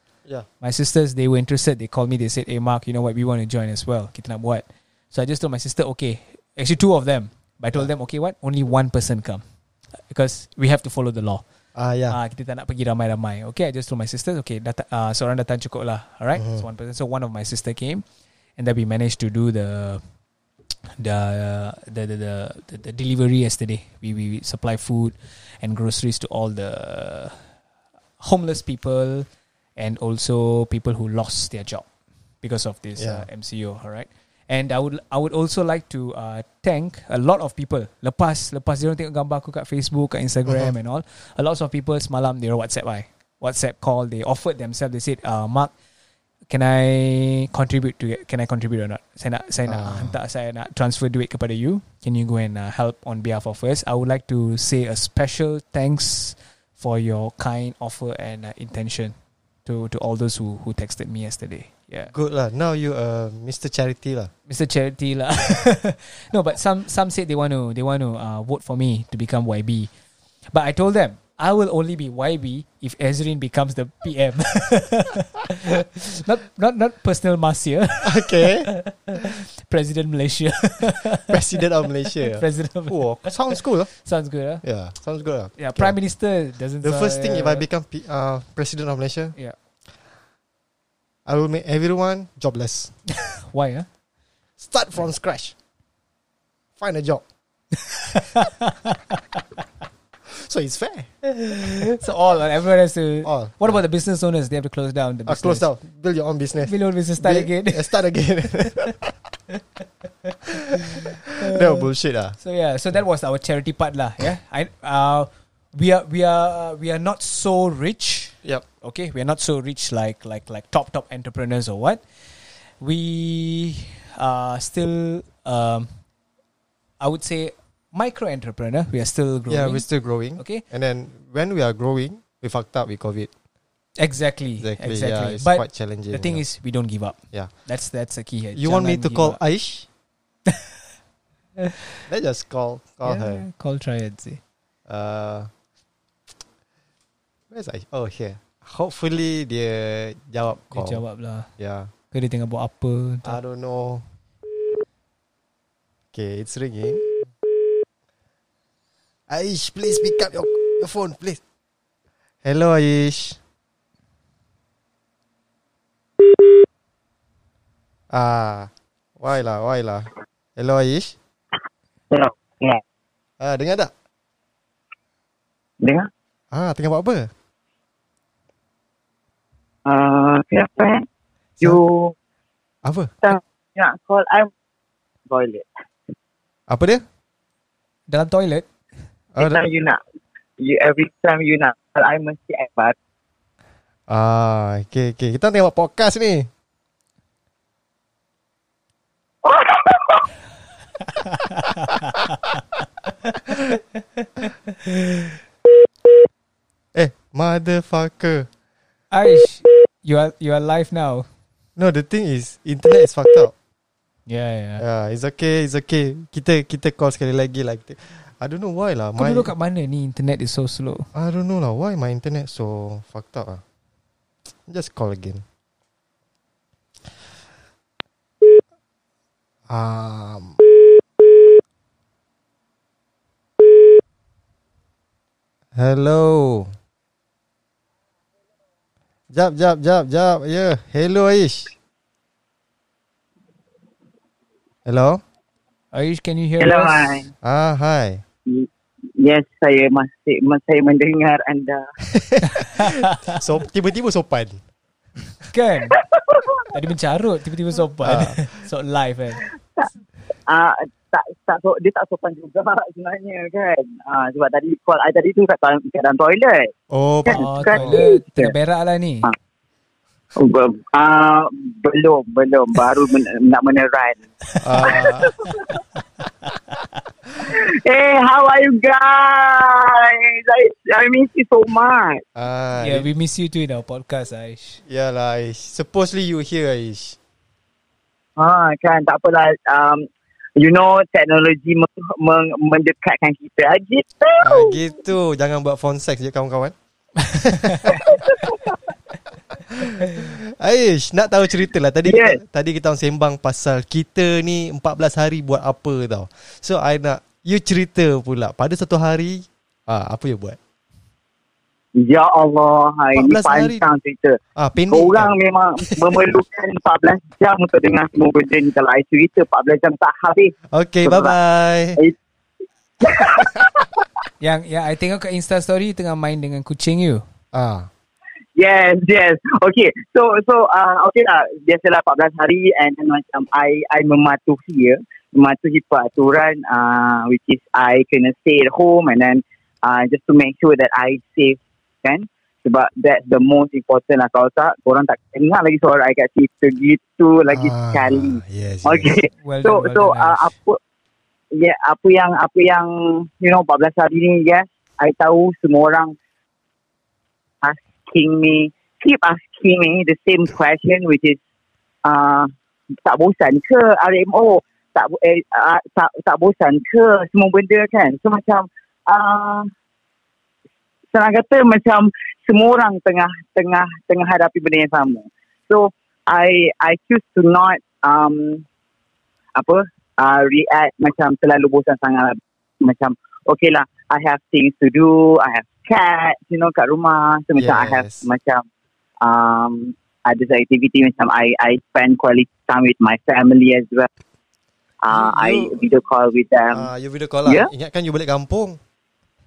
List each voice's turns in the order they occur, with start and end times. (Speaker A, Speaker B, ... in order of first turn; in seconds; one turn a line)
Speaker A: 0.6-9.4
Speaker A: 10.1-11.4
Speaker B: 11.8-12.2
Speaker A: 12.1-18.0
Speaker B: 16.4-16.6
Speaker A: 18.6-20.0
Speaker A: 21.0-27.4
Speaker A: 28.2-31.9
Speaker A: 32.4-45.7
Speaker B: 33.0-33.3
Speaker B: 40.5-40.7
Speaker A: 46.5-59.1
Speaker B: 49.7-50.2
Speaker A: 59.7-62.1
Speaker B: 62.1-64.3
Speaker A: 64.5-69.9
Speaker A: 70.5-84.6
Speaker B: 78.0-78.7
Speaker B: 81.2-83.9
Speaker B: 84.6-85.9
Speaker A: 85.6-87.7
Speaker B: 86.8-89.4
Speaker B: 91.3-92.9
Speaker A: 93.1-93.9
Speaker B: 94.6-95.5
Speaker B: 96.8-97.2
Speaker A: 97.9-99.2
Speaker B: 100.3-101.1
Speaker A: 101.2-105.7
Speaker B: 103.2-103.8
Speaker B: 105.3-109.2
Speaker A: 106.6-108.0
Speaker A: 108.5-108.9
Speaker A: 110.2-111.9
Speaker B: 110.5-112.4
Speaker A: 112.4-122.0
Speaker A: 122.8-125.9
Speaker A: 127.0-129.9
Speaker B: 129.5-133.3
Speaker A: 130.4-130.6
Speaker A: 134.0-139.4
Speaker B: 134.6-136.4
Speaker B: 138.6-139.9
Speaker A: 141.6-142.0
Speaker B: 142.1-143.4
Speaker A: 143.0-144.4
Speaker B: 144.9-145.5
Speaker B: 147.5-151.0
Speaker A: 150.7-151.5
Speaker B: 151.6-151.9
Speaker A: 152.1-153.4
Speaker B: 153.2-154.1
Speaker B: 156.1-157.1
Speaker B: 159.3-161.4
Speaker B: 162.4-163.4
Speaker B: 168.1-171.2
Speaker C: 172.1-172.8
Speaker B: 173.4-173.9
Speaker C: 175.8-176.1
Speaker B: 176.5-177.3
Speaker C: 179.8-181.1
Speaker C: 181.6-182.2
Speaker B: 182.8-183.2
Speaker C: 183.2-184.5
Speaker C: 185.3-185.7
Speaker B: 186.7-187.0
Speaker A: 188.1-188.7
Speaker B: 189.3-189.6
Speaker C: 189.4-190.0
Speaker C: 190.6-192.9
Speaker B: 194.1-196.5
Speaker C: 199.4-200.3
Speaker A: 201.0-205.4
Speaker B: 206.9-208.5
Speaker A: 209.1-211.3
Speaker B: 211.8-213.5
Speaker A: 214.3-214.8
Speaker B: 214.8-219.5
Speaker A: 219.2-221.1
Speaker B: 221.1-223.6
Speaker B: 224.7-225.4
Speaker B: 229.7-230.6
Speaker B: 235.8-236.7
Speaker B: 239.3-241.7
Speaker B: 244.8-245.2
Speaker A: 245.9-247.1
Speaker C: 246.6-247.3
Speaker B: 247.4-248.2
Speaker C: 248.5-251.8
Speaker B: 252.1-254.6
Speaker A: 252.5-253.4
Speaker A: 255.5-256.0
Speaker C: 255.9-256.7
Speaker A: 256.7-259.5
Speaker B: 258.0-258.5
Speaker C: 260.5-266.7
Speaker B: 266.9-268.0
Speaker C: 267.3-268.5
Speaker A: 267.3-269.3
Speaker C: 270.4-274.2
Speaker A: 274.5-275.7
Speaker B: 274.6-275.3
Speaker C: 274.8-275.7
Speaker C: 277.4-282.2
Speaker B: 282.4-283.1
Speaker A: 282.8-284.8
Speaker B: 284.9-287.2
Speaker C: 288.4-294.8
Speaker B: 294.4-296.8
Speaker B: 297.3-298.3
Speaker A: 297.4-298.2
Speaker C: 298.1-298.8
Speaker B: 299.5-310.6
Speaker A: 300.0-300.3
Speaker C: 302.1-302.4
Speaker C: 312.0-320.5
Speaker B: 313.2-313.8
Speaker B: 314.6-315.3
Speaker B: 316.0-316.2
Speaker B: 320.7-322.0
Speaker C: 321.1-321.4
Speaker C: 323.0-324.0
Speaker B: 323.2-323.7
Speaker A: 324.4-327.2
Speaker B: 327.5-327.9
Speaker C: 328.6-350.8
Speaker B: 347.5-349.1
Speaker A: 349.4-350.5
Speaker C: 351.5-356.1
Speaker C: 357.6-361.4
Speaker C: 362.1-362.5
Speaker C: 363.1-369.7
Speaker C: 371.1-378.6
Speaker C: 379.6-388.6
Speaker B: 387.6-388.2
Speaker C: 389.2-394.1
Speaker C: 395.0-396.9
Speaker B: 395.1-395.8
Speaker B: 396.7-398.8